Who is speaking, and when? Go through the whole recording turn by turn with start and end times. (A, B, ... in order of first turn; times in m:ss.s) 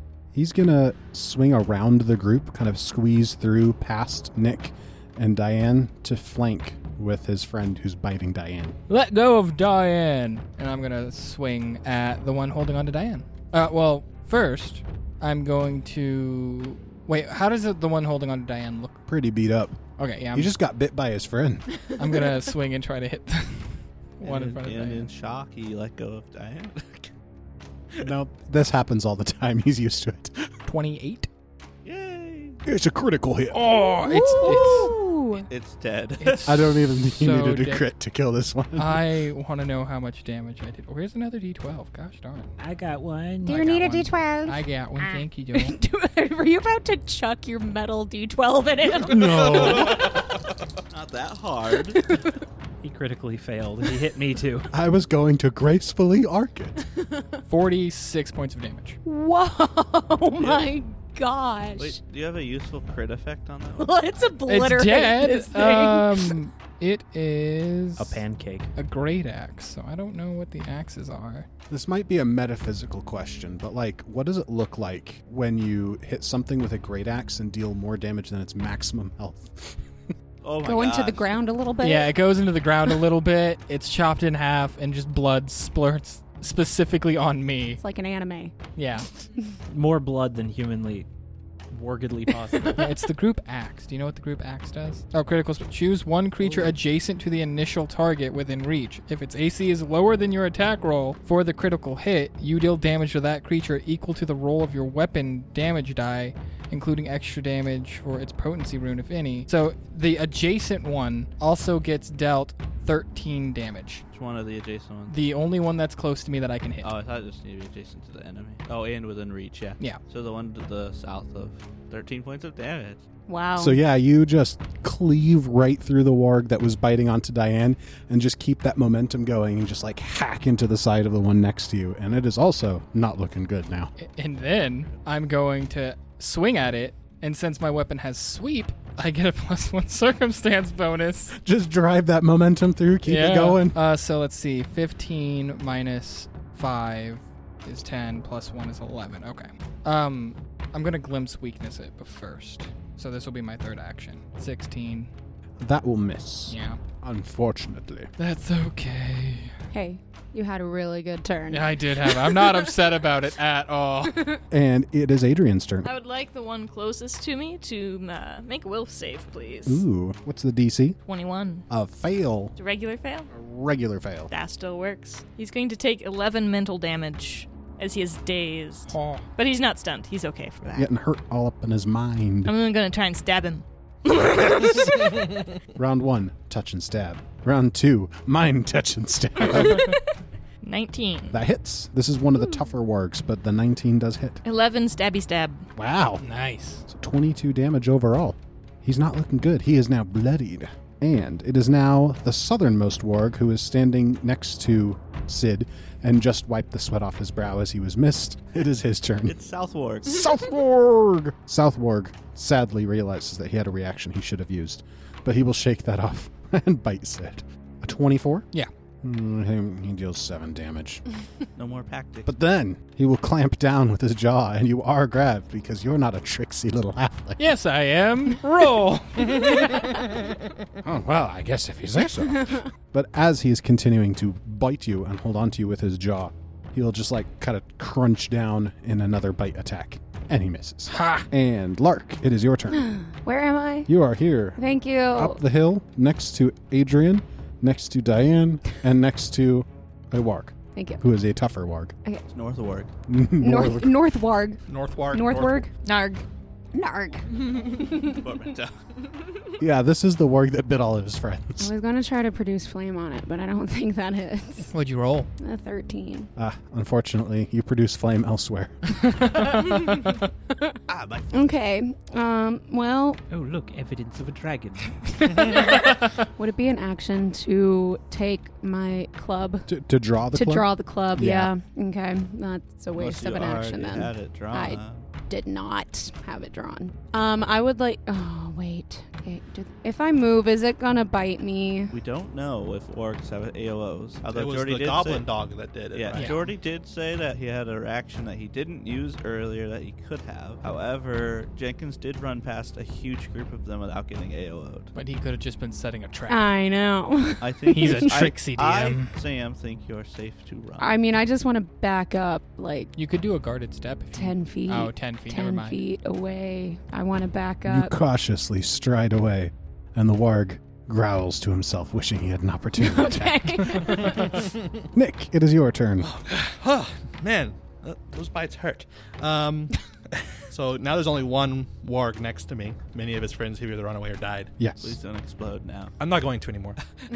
0:00.3-0:08.8 A
0:08.9-0:19.0 B
0:19.1-0:19.8 A
0:20.0-0:20.6 B
0:20.3-0:21.8 A
0:22.0-0:25.1 B
0:24.2-0:27.1 C
0:28.0-0:30.5 A
0:30.7-0:31.3 B
0:31.8-0:32.6 C
0:32.6-0:33.7 A
0:33.5-0:34.9 B
0:34.0-0:35.5 D
0:35.5-0:36.5 C
0:36.2-0:37.9 B
0:36.5-0:39.0 A
0:38.8-0:42.5 B
0:42.6-0:43.8 E
0:43.4-0:45.8 B
0:43.4-0:50.2 D
0:49.0-0:50.2 A
0:49.9-0:50.1 F
0:50.9-0:52.0 C
0:51.9-0:52.3 D
0:52.8-0:54.7 E
0:54.7-0:56.8 A
0:57.5-0:59.0 B
0:59.0-1:02.0 D
1:00.4-1:00.7 C
1:01.8-1:04.0 C
1:03.8-1:06.4 D
1:04.5-1:08.2 B
1:08.0-1:08.7 E
1:08.8-1:11.5 B
1:11.7-1:19.8 A
1:20.4-1:21.4 C
1:20.6-1:22.2 D
1:21.8-1:27.8 B
1:27.8-1:28.5 D
1:28.8-1:29.1 B
1:29.7-1:31.1 E
1:31.7-1:32.9 E
1:32.8-1:54.0 B
1:36.4-1:36.7 E
1:54.1-1:55.2 C
1:55.1-1:56.9 B
1:56.8-2:03.0 C
2:03.3-2:03.8 D
2:03.6-2:13.9 A
2:14.0-2:21.4 B
2:21.4-2:23.8 A
2:23.1-2:35.1 B
2:35.6-2:38.1 A
2:36.5-2:36.8 B
2:38.2-2:39.6 B
2:39.7-2:42.7 D
2:41.5-2:44.3 B
2:44.5-2:45.9 A
2:45.8-2:49.8 G
2:49.6-2:51.0 A
2:51.0-2:51.7 G
2:51.7-2:52.6 A
2:52.6-2:53.3 G
2:53.3-2:54.3 A
2:54.3-3:00.9 G
2:58.9-2:59.3 B
3:00.7-3:02.5 A
3:02.4-3:05.2 G
3:05.8-3:09.9 A
3:10.6-3:11.4 G
3:11.3-3:14.4 A
3:14.4-3:15.6 G
3:15.8-3:16.2 A
3:16.2-3:16.8 B
3:16.9-3:29.4 A
3:29.3-3:30.3 C
3:30.0-3:38.5 A
3:39.0-3:41.0 A
3:41.6-3:42.3 C
3:42.2-3:47.5 A
3:47.4-3:50.1 B
3:50.8-4:03.0 A
3:52.3-3:52.6 D
4:00.9-4:01.3 B
4:02.7-4:03.9 D
4:03.9-4:04.6 A
4:04.6-4:05.4 D
4:05.1-4:12.0 A
4:10.8-4:11.0 D
4:12.3-4:12.9 C
4:13.1-4:14.0 A
4:13.4-4:15.7 D
4:14.7-4:15.7 F
4:15.8-4:16.2 G
4:16.7-4:18.3 D
4:17.4-4:19.0 C
4:19.6-4:21.7 A
4:21.6-4:24.7 D
4:24.7-4:25.3 B
4:25.4-4:26.3 D
4:26.4-4:29.2 A
4:30.9-4:31.6 C
4:31.3-4:33.2 D
4:33.3-4:35.3 E
4:35.5-4:39.7 D
4:39.7-4:41.5 A
4:40.3-4:51.9 D
4:43.0-4:45.0 C
4:51.9-4:55.3 C
4:54.3-4:56.4 F
4:55.9-5:04.9 C
4:56.1-4:56.4 B
5:05.0-5:06.5 B
5:06.3-5:08.2 D
5:07.4-5:10.9 C
5:07.7-5:09.2 B
5:10.8-5:12.9 D
5:13.0-5:15.8 B
5:14.1-5:17.9 D
5:17.7-5:24.4 A
5:22.8-5:24.4 D
5:24.9-5:26.1 A
5:26.0-5:29.8 F
5:30.5-5:34.5 F
5:34.6-5:35.0 A
5:34.8-5:35.9 C
5:36.0-5:36.8 F